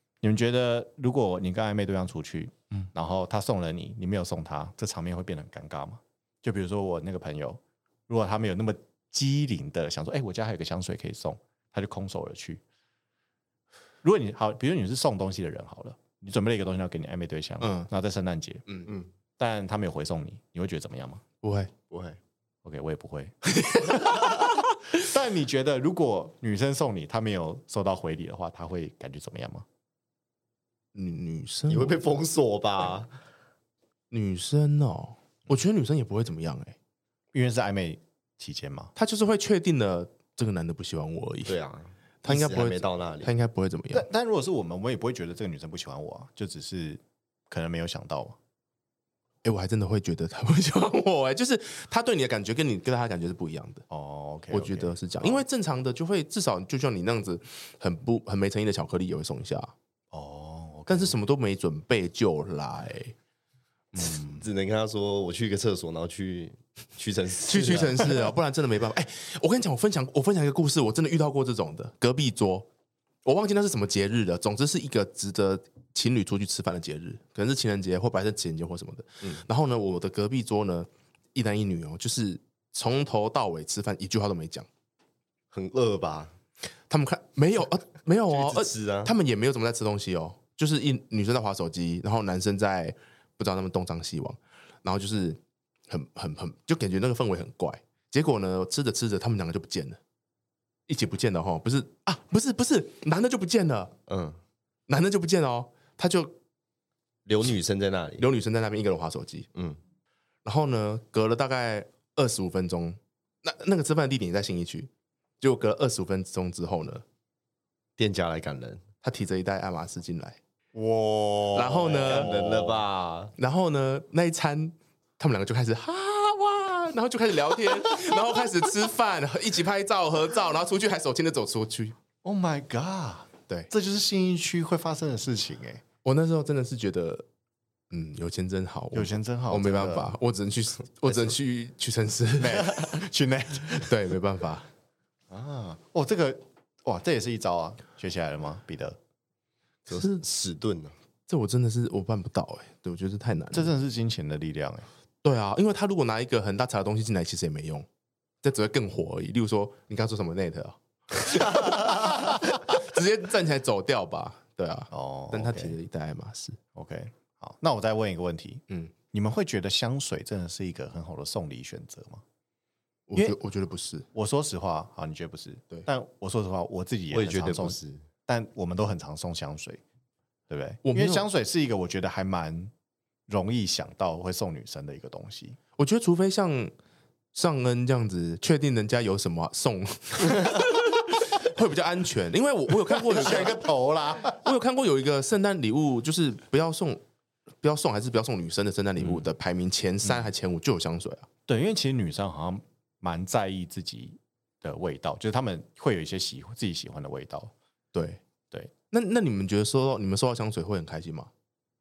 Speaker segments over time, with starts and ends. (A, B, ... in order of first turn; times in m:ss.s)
0:00.2-0:12.6 A
0:14.0-0:18.7 A
0:17.6-0:17.9 B
0:19.4-0:21.2 A
0:21.4-0:21.7 B
0:21.9-0:22.2 C
0:22.6-0:29.6 A
0:23.6-0:24.2 B
0:30.9-0:32.0 B
0:31.7-0:33.1 C
0:34.1-0:36.8 B
0:37.3-0:38.9 A
0:39.0-0:41.6 B
0:41.4-0:43.3 C
0:42.2-0:44.1 B
0:43.9-0:48.4 A
0:49.4-0:53.8 B
0:53.9-0:55.4 A
0:54.5-0:59.7 B
1:00.1-1:01.2 A
1:00.9-1:03.1 B
1:03.9-1:04.2 B
1:04.4-1:08.2 C
1:07.4-1:12.7 B
1:13.2-1:24.7 B
1:25.5-1:26.3 C
1:26.9-1:40.0 B
1:28.3-1:29.1 C
1:40.9-1:43.9 B
1:44.1-1:44.4 C
1:44.9-1:46.4 B
1:47.2-1:48.2 C
1:48.2-1:49.5 B
1:49.5-1:49.8 C
1:50.4-1:54.9 B
1:55.4-1:57.0 B
1:58.0-1:58.8 C
1:59.0-2:00.4 B
2:00.7-2:02.8 A
2:01.5-2:02.3 B
2:02.0-2:03.3 C
2:03.4-2:12.0 B
2:12.2-2:15.8 A
2:16.0-2:17.2 B
2:17.9-2:22.8 B
2:18.9-2:20.1 A
2:22.4-2:23.9 A
2:23.8-2:24.7 B
2:25.3-2:29.0 A
2:29.9-2:30.9 C
2:29.9-2:30.2 B
2:31.3-2:33.7 B
2:33.5-2:34.9 A
2:35.2-2:37.8 B
2:38.4-2:46.6 B
2:41.8-2:42.4 A
2:44.9-2:45.8 A
2:46.7-2:52.2 A
2:53.1-2:54.1 B
2:54.1-2:59.8 A
2:57.1-2:58.0 C
3:00.5-3:02.7 A
3:00.8-3:01.2 B
3:03.3-3:05.6 A
3:05.8-3:06.7 B
3:07.3-3:13.6 B
3:13.0-3:14.5 A
3:14.3-3:17.0 B
3:17.6-3:21.3 B
3:21.5-3:27.5 A
3:27.9-3:28.2 B
3:28.9-3:31.3 B